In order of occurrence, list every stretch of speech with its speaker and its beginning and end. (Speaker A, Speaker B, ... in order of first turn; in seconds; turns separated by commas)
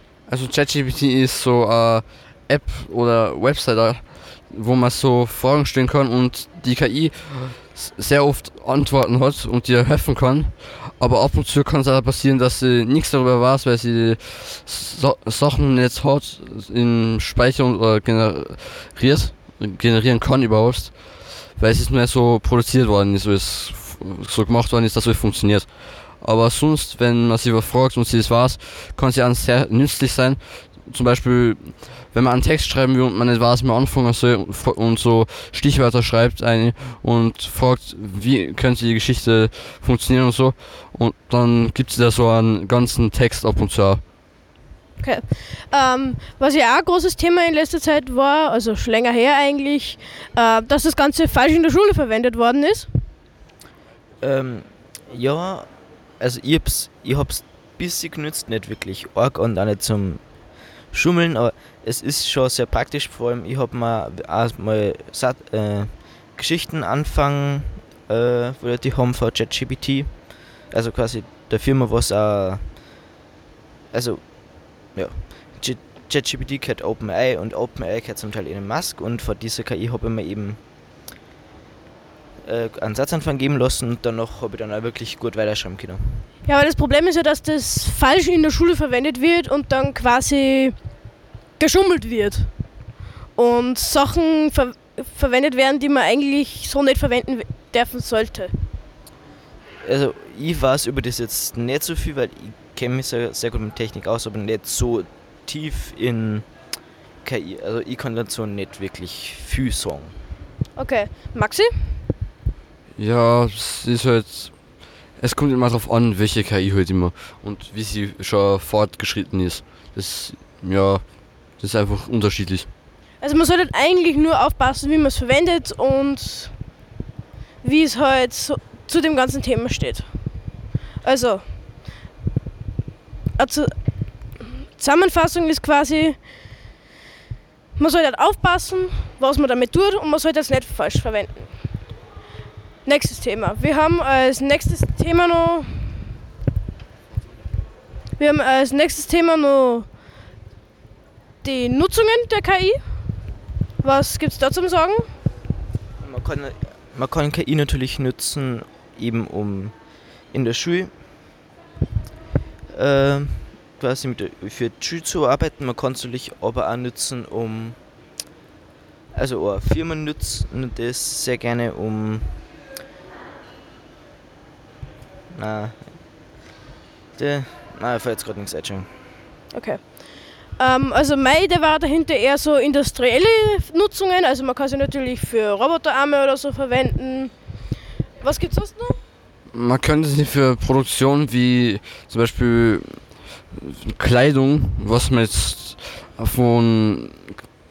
Speaker A: 0.3-44.0, Speaker B: 45.0-52.9, Speaker C: 54.2-55.7, Speaker C: 56.2-60.2, Speaker C: 60.9-72.8, Speaker C: 73.9-80.6, Speaker C: 82.5-86.2, Speaker B: 86.5-90.8, Speaker B: 91.6-92.5, Speaker B: 93.4-98.5, Speaker C: 99.8-106.5, Speaker C: 107.2-110.1, Speaker B: 110.8-112.0, Speaker A: 113.0-114.5, Speaker A: 115.2-121.0, Speaker A: 121.6-122.7, Speaker B: 123.2-126.5, Speaker B: 127.6-130.1, Speaker B: 131.0-131.4, Speaker B: 133.4-133.7, Speaker B: 134.8-136.2, Speaker B: 137.8-141.5, Speaker B: 142.8-146.0, Speaker B: 148.2-149.9, Speaker B: 151.4-152.8, Speaker B: 153.8-155.1, Speaker C: 156.0-159.8, Speaker C: 160.3-160.9, Speaker C: 162.7-167.8, Speaker C: 169.1-172.4, Speaker C: 175.3-176.0, Speaker C: 177.2-178.9, Speaker B: 179.5-180.1, Speaker B: 180.6-187.3, Speaker B: 188.2-189.0, Speaker A: 189.5-197.4